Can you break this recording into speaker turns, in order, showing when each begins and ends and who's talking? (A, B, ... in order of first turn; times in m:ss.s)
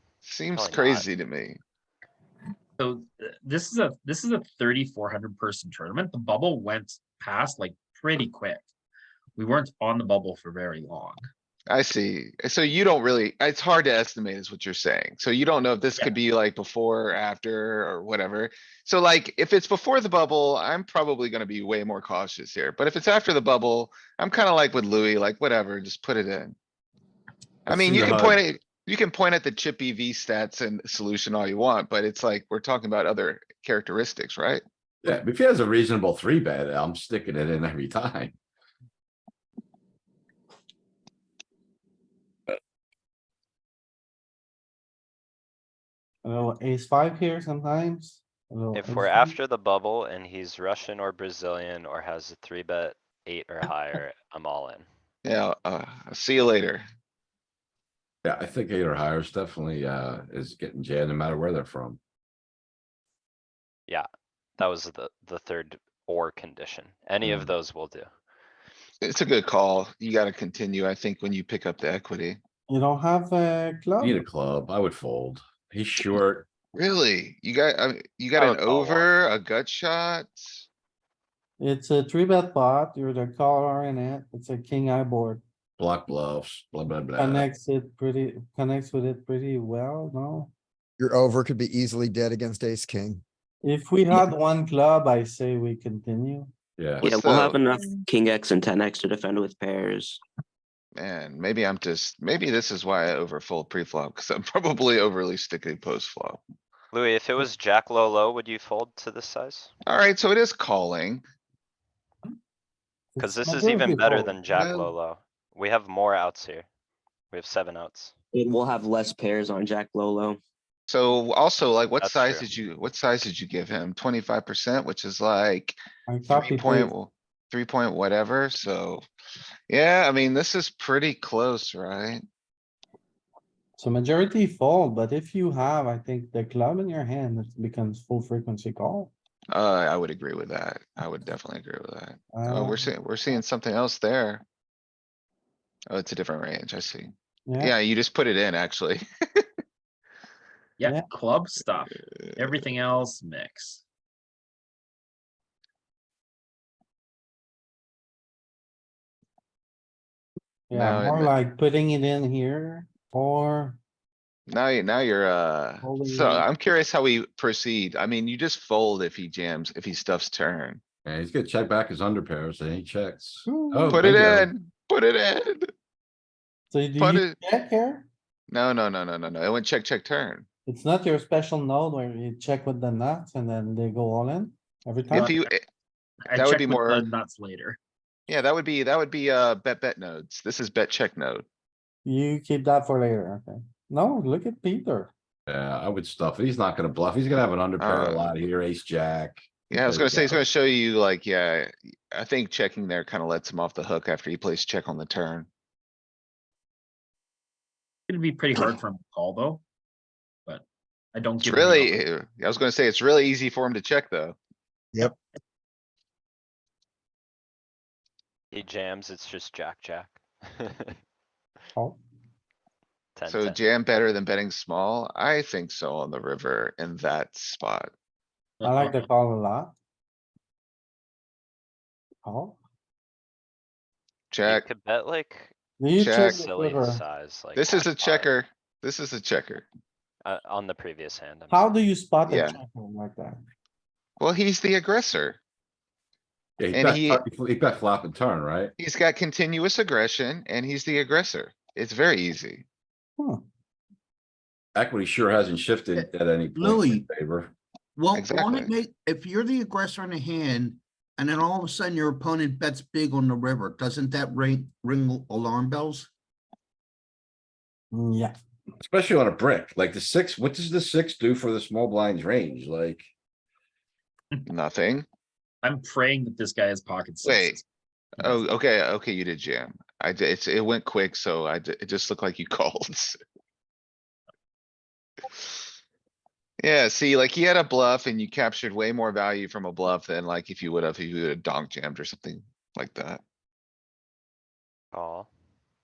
0:00.2-0:01.6 A
0:00.5-0:01.1 B
0:02.8-0:08.7 C
0:09.4-0:11.2 C
0:11.7-0:26.5 A
0:27.7-0:28.4 D
0:27.7-0:34.6 A
0:35.0-0:38.3 D
0:46.2-0:49.4 E
0:48.7-0:54.8 B
0:55.2-0:56.8 A
0:58.2-1:02.0 D
1:04.6-1:08.1 B
1:07.2-1:07.5 D
1:09.0-1:12.4 A
1:12.7-1:14.2 E
1:14.0-1:16.5 D
1:16.7-1:20.6 A
1:18.4-1:19.1 B
1:21.6-1:25.4 E
1:25.8-1:27.5 D
1:27.2-1:30.5 E
1:31.0-1:33.2 F
1:33.6-1:36.5 E
1:36.8-1:37.1 D
1:37.0-1:37.6 A
1:37.0-1:40.2 G
1:41.0-1:46.4 A
1:46.9-1:49.7 B
1:49.8-1:51.2 A
1:53.1-1:54.4 E
1:53.2-1:56.7 B
1:54.5-1:54.9 A
1:57.3-1:58.1 B
1:58.3-2:00.4 G
2:00.9-2:09.0 A
2:02.0-2:02.5 B
2:06.1-2:06.9 E
2:09.7-2:12.2 A
2:13.8-2:19.1 E
2:19.5-2:24.4 A
2:22.3-2:22.9 E
2:25.9-2:29.4 A
2:27.5-2:27.7 E
2:30.8-2:33.8 C
2:32.3-2:32.6 A
2:40.7-2:43.8 E
2:40.7-2:41.3 A
2:44.5-2:50.8 A
2:45.8-2:46.5 E
2:51.0-2:54.5 D
2:53.4-2:54.0 E
2:53.9-2:55.7 A
2:56.7-2:58.1 E
2:57.0-2:57.4 A
2:58.5-3:00.4 A
3:00.6-3:05.4 E
3:05.1-3:05.6 A
3:05.2-3:05.4 C
3:06.3-3:07.8 C
3:06.3-3:07.1 A
3:08.3-3:11.4 A
3:12.0-3:15.1 E
3:15.5-3:20.4 D
3:17.8-3:18.4 A
3:19.7-3:25.5 A
3:28.1-3:29.6 C
3:30.5-3:32.0 C
3:31.4-3:34.4 A
3:38.5-3:41.0 B
3:43.2-3:43.6 B
3:43.3-3:47.9 A
3:48.6-3:49.1 C
3:48.6-3:49.7 E
3:52.2-3:52.6 E
3:54.3-3:54.6 A
3:54.4-3:55.5 B
3:55.8-3:57.0 E
3:56.0-3:56.4 A
3:56.3-3:58.3 B
3:57.6-3:59.6 A
4:00.2-4:01.8 B
4:01.5-4:03.4 E
4:02.3-4:02.6 A
4:04.2-4:05.4 A
4:06.6-4:08.7 D
4:06.7-4:07.2 A
4:08.8-4:12.6 A
4:14.7-4:17.5 D
4:16.0-4:17.0 H
4:18.0-4:26.1 H
4:18.1-4:18.7 A
4:27.9-4:28.3 E
4:28.8-4:33.1 D
4:34.5-4:35.0 A
4:35.6-4:37.6 C
4:37.2-4:37.6 A
4:38.2-4:43.2 A
4:46.6-4:53.2 A
4:54.9-4:55.3 B